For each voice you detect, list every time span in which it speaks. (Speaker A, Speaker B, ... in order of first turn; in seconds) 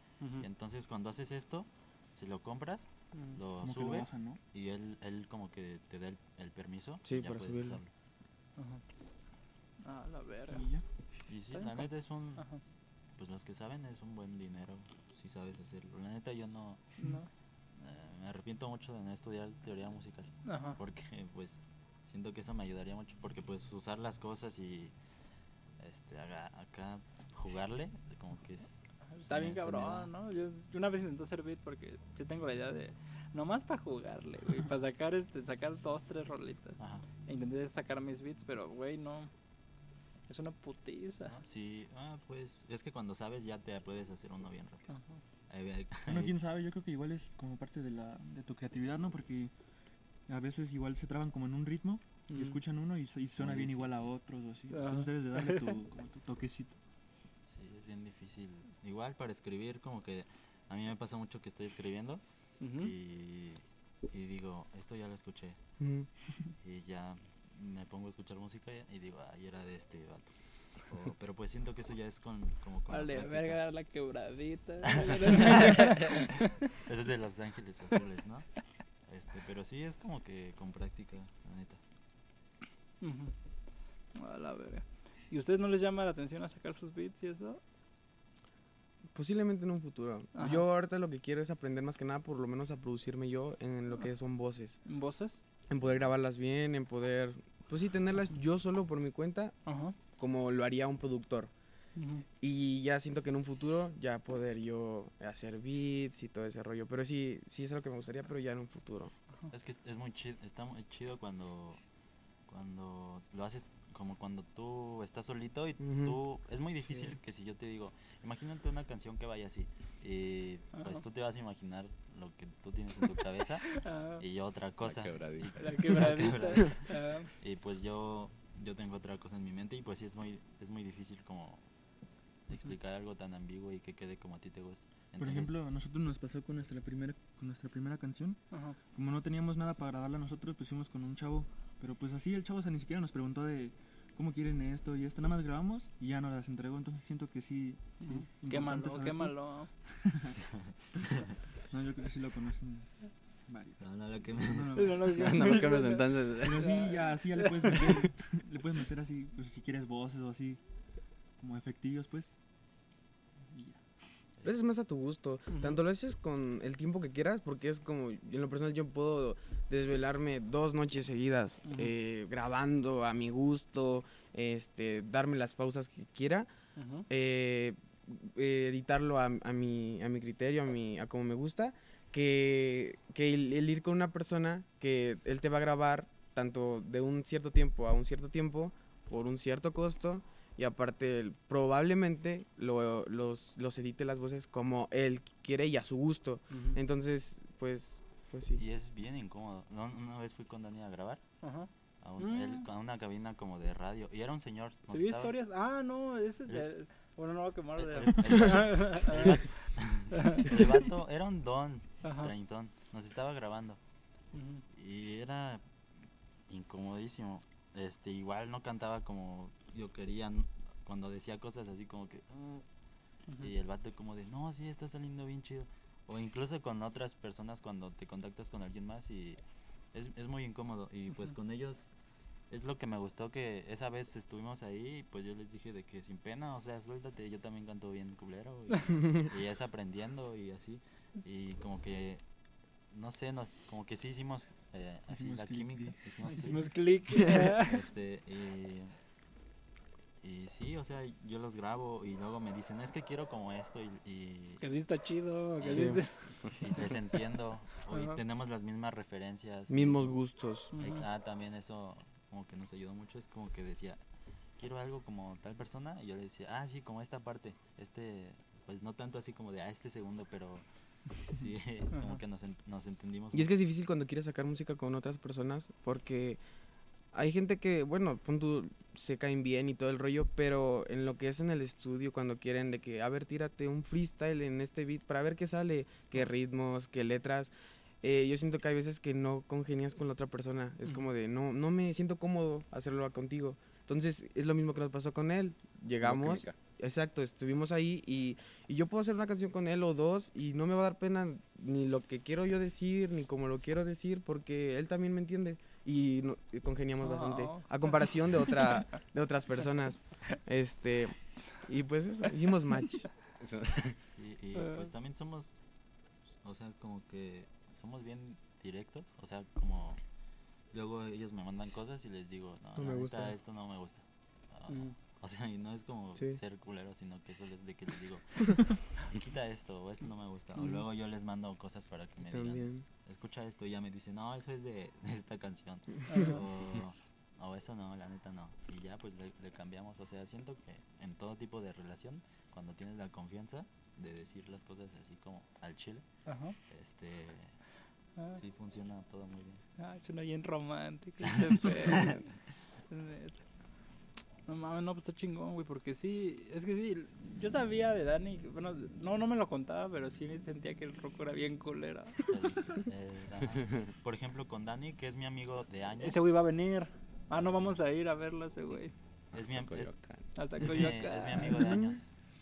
Speaker A: 0.2-0.5, 3.1-3.4, 8.6-8.8, 9.8-10.7, 11.5-12.6, 17.0-17.3, 20.4-20.8, 29.1-39.3, 40.3-41.4, 44.9-45.2, 52.3-52.6, 54.7-55.8, 62.6-62.9, 72.9-76.5, 83.0-83.3, 84.1-87.6, 90.3-90.7, 94.8-95.4, 99.7-100.0, 102.0-102.2, 120.7-121.0, 123.7-124.2, 125.6-127.3, 138.5-138.8, 148.0-149.7, 154.8-158.1, 165.5-165.8, 171.7-171.9, 176.8-177.1, 196.5-196.8, 201.4-201.7, 202.2-202.7, 204.9-209.5, 210.1-210.6, 212.0-212.3, 214.3-214.6, 246.3-247.8, 254.6-256.2, 257.9-258.2, 260.7-261.1, 271.9-272.2, 307.0-308.8, 314.6-314.9, 324.7-324.9, 336.1-336.4, 346.3-346.6, 349.8-352.2, 352.9-353.4, 354.5-362.2, 366.0-368.9, 370.4-371.7
Speaker B: 0.4-7.9, 11.3-12.4, 13.2-16.9, 17.8-24.9, 25.8-30.1, 36.8-37.0, 41.3-44.9, 45.5-46.4, 53.4-54.1, 57.5-62.2, 62.8-65.6, 66.6-70.3, 70.9-73.6, 74.8-78.5, 79.1-81.8, 109.5-111.8, 112.5-131.6, 132.5-135.5, 153.8-155.1, 198.6-201.2, 202.0-205.3, 207.8-213.8, 214.7-215.6, 216.5-222.6, 223.4-229.4, 229.9-231.9, 232.5-242.2, 242.9-246.7, 247.3-248.9, 250.2-254.6, 255.6-256.0, 256.5-260.2, 260.7-264.0, 264.6-270.6, 271.2-273.5, 314.1-315.6, 316.4-320.0, 320.7-346.1, 346.7-347.6, 348.3-349.6, 351.5-352.2, 362.3-366.3, 369.3-369.9, 370.6-372.1
Speaker C: 3.6-4.4, 10.5-10.8, 46.1-49.5, 50.3-56.8, 135.2-138.4, 138.9-149.4, 150.0-150.4, 151.7-152.9, 153.5-153.8, 154.4-155.8, 156.4-160.6, 161.4-162.3, 163.5-163.8, 245.1-246.7
Speaker D: 7.1-7.8, 65.8-66.1, 89.1-94.8, 95.7-99.5, 100.2-101.5, 102.4-109.1, 115.8-116.2, 164.4-176.5, 177.1-198.6, 247.2-247.5, 255.7-256.0, 259.7-260.7, 273.3-276.4, 277.1-313.1, 322.8-323.3, 332.3-332.8, 371.5-371.9
Speaker E: 124.8-125.8, 155.2-156.9, 296.0-296.5, 313.4-314.0, 369.5-370.2